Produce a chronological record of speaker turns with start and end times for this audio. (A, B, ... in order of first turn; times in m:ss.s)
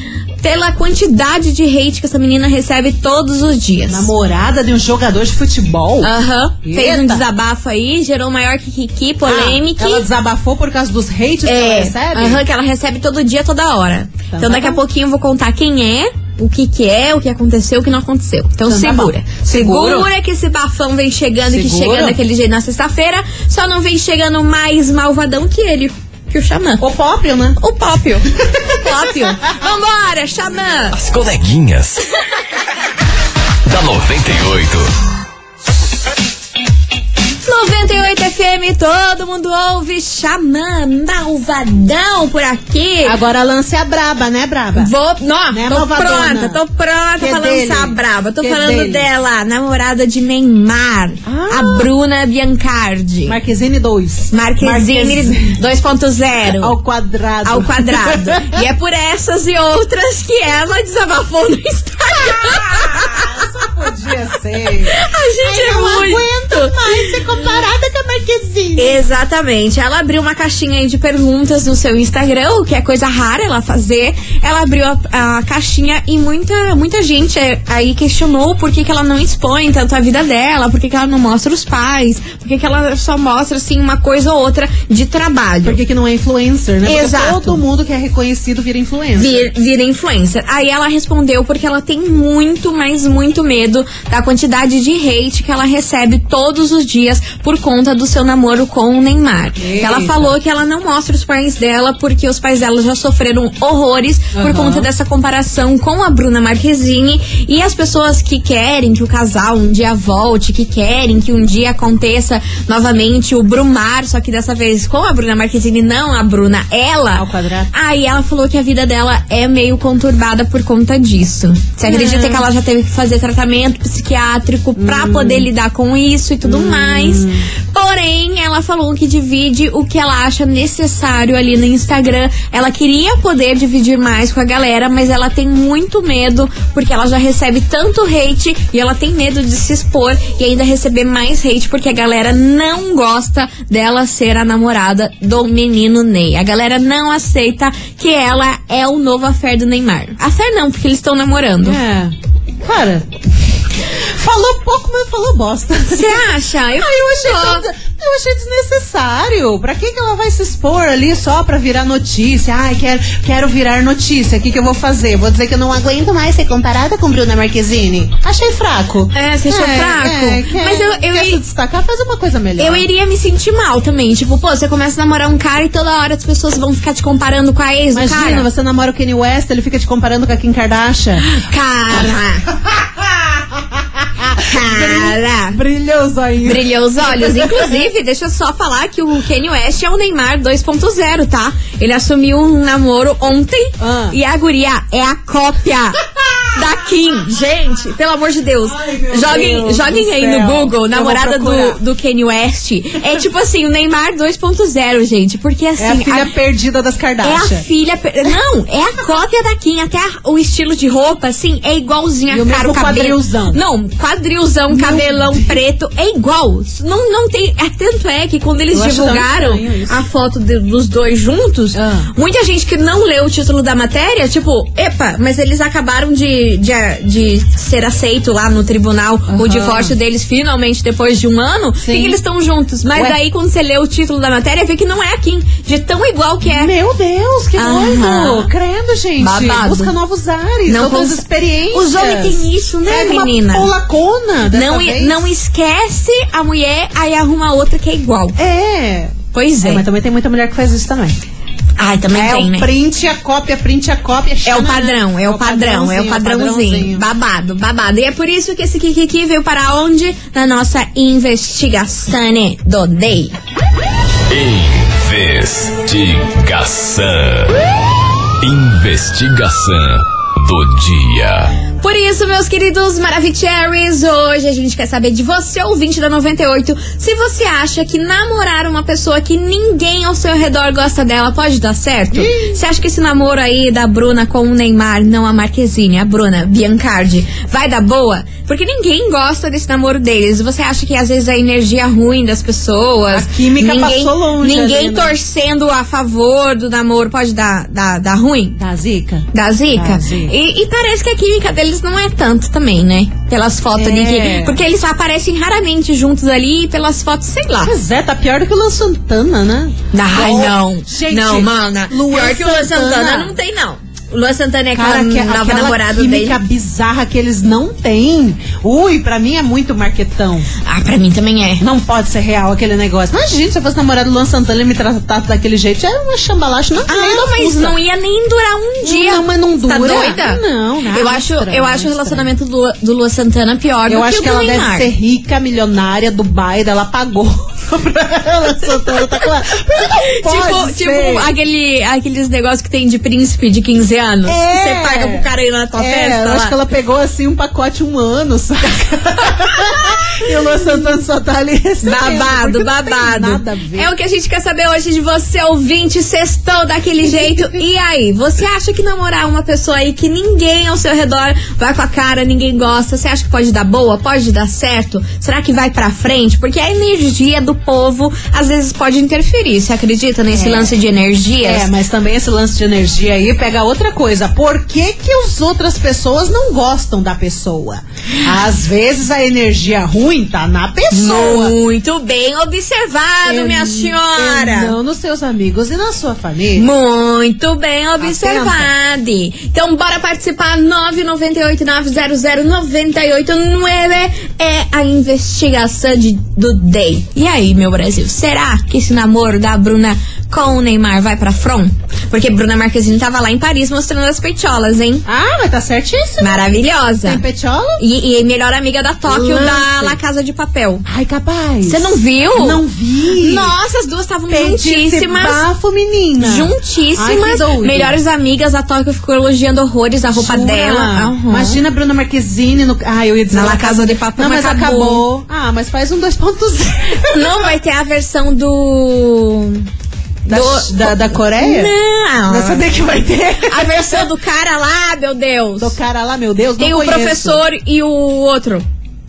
0:00.4-0:04.1 A
0:03.9-0:06.1 B
0:06.0-0:10.1 A
0:06.6-0:07.2 B
0:09.2-0:12.4 B
0:11.4-0:26.8 A
0:14.3-0:14.8 B
0:18.6-0:20.1 B
0:21.5-0:22.2 B
0:26.8-0:27.6 B
0:27.6-0:31.0 A
0:30.9-0:32.0 C
0:33.6-0:34.9 C
0:37.4-0:43.2 A
0:43.0-0:44.9 B
0:44.8-0:53.4 A
0:45.5-0:46.6 B
0:47.2-0:49.1 B
0:51.2-0:51.9 B
0:53.3-0:55.5 B
0:54.3-0:56.8 A
0:56.5-0:58.5 B
0:57.4-1:03.3 A
1:02.4-1:09.0 B
1:04.8-1:07.1 A
1:08.8-1:25.8 A
1:25.6-1:29.4 B
1:26.8-1:27.6 A
1:29.2-2:31.8 A
1:39.6-1:40.3 B
1:44.3-1:44.9 B
1:57.1-1:57.7 B
2:01.8-2:02.4 B
2:04.8-2:05.5 B
2:06.4-2:07.4 B
2:31.6-2:33.1 B
2:34.1-2:36.2 B
2:35.9-2:37.6 A
2:36.7-2:52.8 B
2:49.1-2:51.4 A
2:52.6-2:58.5 A
2:57.9-3:01.2 B
3:01.2-3:02.4 A
3:04.2-3:07.7 B
3:04.4-3:05.6 A
3:06.4-3:16.0 A
3:13.8-3:14.2 B
3:16.5-3:26.3 A
3:18.6-3:21.8 B
3:25.8-3:27.6 B
3:27.2-3:56.7 A
3:32.3-3:33.6 B
3:34.7-3:35.6 B
3:38.7-3:40.0 B
3:41.8-3:42.1 B
3:49.3-3:49.9 B
3:51.8-3:52.2 B
3:52.9-3:53.2 B
3:56.4-4:05.3 B
3:57.6-3:58.5 A
3:59.2-3:59.9 A
4:00.7-4:03.7 A
4:04.5-4:08.4 A
4:08.4-4:11.2 B
4:09.3-4:09.8 A
4:11.8-4:12.7 A
4:12.1-4:17.0 B
4:14.4-4:23.4 A
4:24.3-4:27.6 C
4:28.4-4:31.5 C
4:31.8-4:58.6 A
4:42.1-4:42.6 B
4:53.1-4:55.2 B
4:58.6-5:00.3 B
4:59.3-5:07.7 A
5:03.8-5:04.6 B
5:07.6-5:13.3 B
5:09.9-5:16.4 A
5:14.7-5:20.5 B
5:20.6-5:21.6 A
5:21.6-5:27.7 B
5:26.9-5:34.9 A
5:28.8-5:32.3 B
5:33.9-5:41.3 B
5:40.0-5:46.5 A
5:44.2-5:53.9 B
5:51.8-6:11.7 A
5:57.0-5:57.6 B
6:10.3-6:10.7 B
6:11.4-6:21.6 B
6:20.9-6:24.8 A
6:23.2-6:26.7 B
6:26.6-6:45.0 A
6:28.0-6:28.7 B
6:45.1-6:46.4 B
6:46.2-6:47.2 A
6:47.0-6:47.8 B
6:47.8-6:50.8 A
6:49.1-6:50.0 B
6:50.9-6:53.5 B
6:51.6-6:52.6 A
6:53.1-6:55.4 A
6:54.3-6:58.0 B
6:56.2-7:01.6 A
7:00.1-7:07.3 B
7:03.3-7:05.0 A
7:07.1-7:09.7 A
7:10.3-7:11.7 B
7:10.3-7:12.6 A
7:12.3-7:14.0 B
7:13.4-7:15.8 A
7:15.6-7:17.4 B
7:16.6-7:18.6 A